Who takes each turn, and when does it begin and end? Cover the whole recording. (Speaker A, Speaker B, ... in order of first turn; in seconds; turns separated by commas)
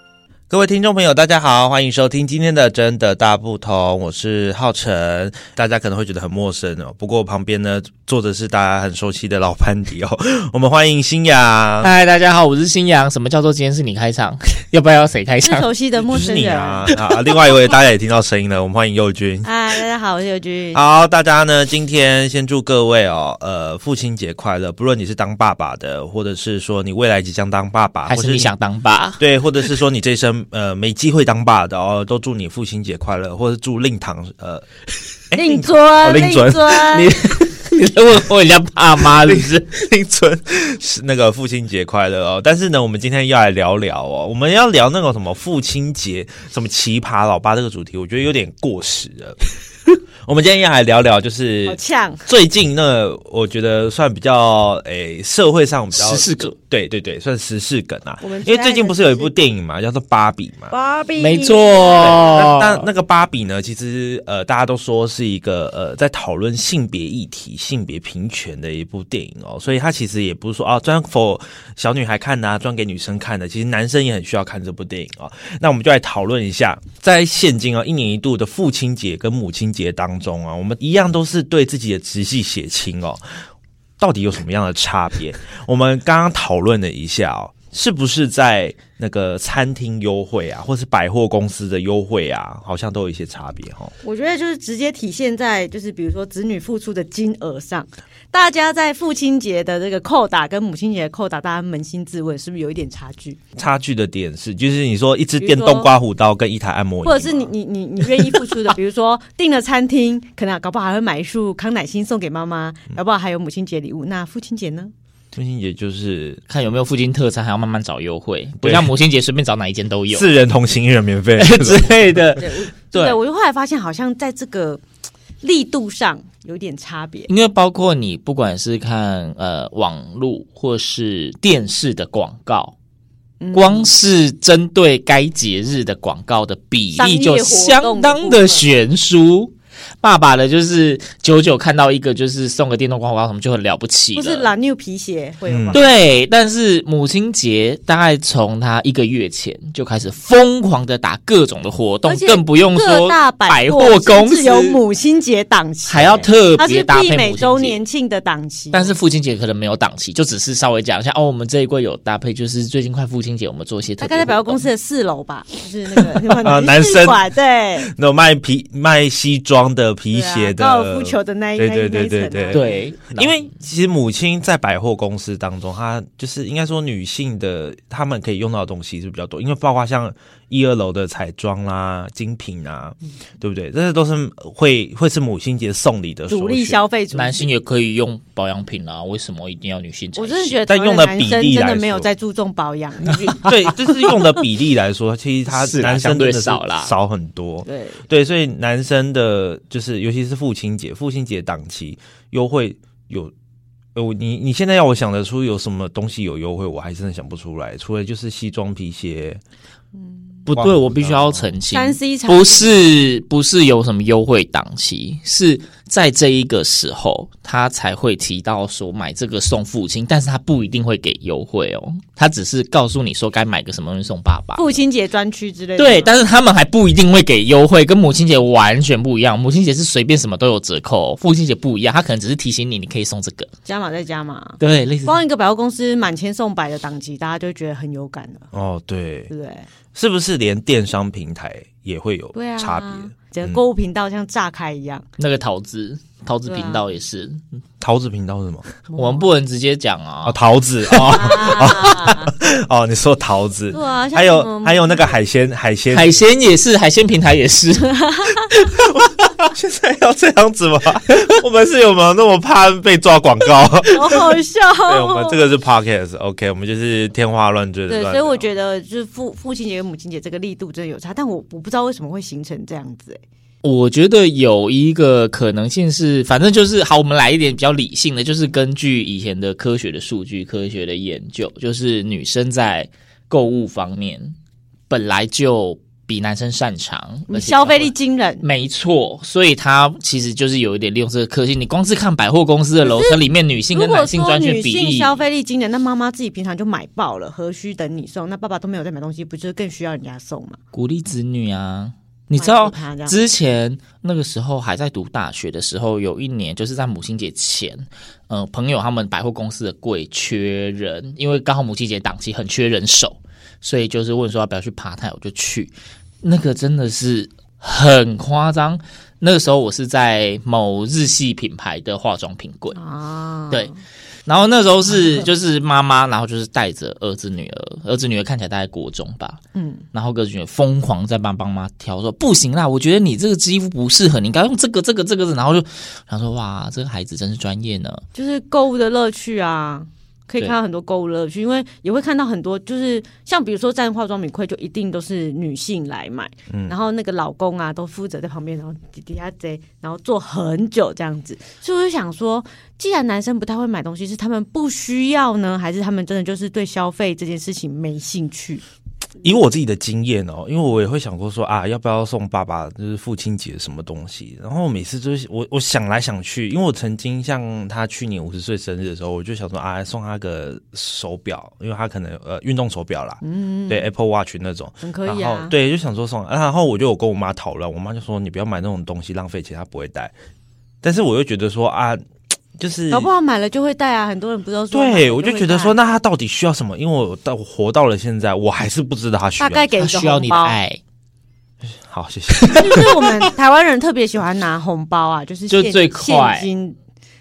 Speaker A: 0.5-11.9, Speaker B: 11.8-15.7, Speaker C: 15.4-17.0, Speaker A: 16.0-19.5, Speaker C: 19.4-20.8, Speaker A: 20.7-28.5, Speaker B: 28.1-29.2, Speaker A: 29.2-34.6, Speaker A: 35.3-36.9, Speaker C: 35.3-37.1, Speaker B: 36.8-39.7, Speaker A: 39.2-49.4, Speaker A: 50.2-60.7, Speaker C: 51.6-52.3, Speaker B: 55.9-56.5, Speaker C: 58.2-59.4, Speaker C: 60.7-62.3, Speaker B: 61.2-62.9, Speaker A: 62.0-83.2, Speaker A: 84.0-93.9, Speaker C: 94.0-103.4, Speaker A: 103.5-107.5, Speaker C: 105.4-105.9, Speaker C: 107.0-114.9, Speaker A: 115.3-116.4, Speaker B: 116.5-120.3, Speaker A: 118.6-118.9, Speaker A: 120.1-122.2, Speaker B: 121.4-123.2, Speaker C: 122.4-124.8, Speaker C: 125.4-127.3, Speaker B: 127.3-132.7, Speaker C: 133.4-133.9, Speaker B: 133.5-144.5, Speaker C: 136.9-138.7, Speaker C: 144.1-145.9, Speaker A: 145.5-145.8, Speaker B: 145.7-154.8, Speaker C: 152.0-158.9, Speaker B: 155.8-157.8, Speaker B: 158.7-164.6, Speaker C: 164.0-167.9, Speaker A: 166.3-186.8, Speaker C: 170.1-172.7, Speaker B: 172.5-173.4, Speaker C: 186.3-187.5, Speaker B: 187.1-190.6, Speaker C: 190.2-193.5, Speaker A: 190.7-192.1, Speaker A: 193.3-203.3, Speaker B: 195.5-196.9, Speaker C: 197.6-198.0, Speaker A: 203.9-209.4, Speaker C: 210.0-210.4, Speaker B: 210.5-224.7, Speaker A: 210.5-211.5, Speaker C: 211.7-212.8, Speaker C: 224.5-226.2, Speaker B: 225.8-233.5, Speaker C: 233.6-238.5, Speaker B: 234.6-235.2, Speaker A: 238.5-239.3, Speaker C: 239.3-239.7, Speaker A: 239.9-243.6, Speaker C: 242.3-245.0, Speaker B: 245.2-247.4, Speaker C: 246.4-246.8, Speaker A: 247.8-248.8, Speaker B: 248.9-250.4, Speaker C: 248.9-249.3, Speaker A: 250.2-256.2, Speaker B: 250.9-251.9, Speaker C: 251.1-252.3, Speaker C: 253.7-255.1, Speaker B: 255.9-257.9, Speaker C: 257.8-258.5, Speaker B: 258.5-258.8, Speaker A: 258.6-268.5, Speaker C: 263.9-265.4, Speaker C: 267.9-273.2, Speaker B: 273.6-284.4, Speaker B: 284.9-295.2, Speaker C: 287.3-288.4, Speaker C: 292.8-293.2, Speaker C: 293.7-300.6, Speaker B: 300.7-322.8, Speaker C: 302.3-303.2, Speaker C: 322.7-323.8, Speaker B: 324.2-329.4, Speaker C: 329.5-329.8, Speaker B: 329.9-338.0, Speaker C: 338.1-358.6, Speaker A: 359.2-380.1, Speaker C: 373.2-373.9, Speaker C: 374.8-375.5, Speaker A: 380.8-382.0, Speaker A: 382.5-383.1, Speaker C: 382.9-385.8, Speaker A: 384.7-389.7, Speaker C: 389.4-390.6, Speaker B: 389.8-390.8, Speaker A: 391.8-392.9, Speaker B: 392.4-392.8, Speaker C: 392.5-396.8, Speaker B: 395.5-396.5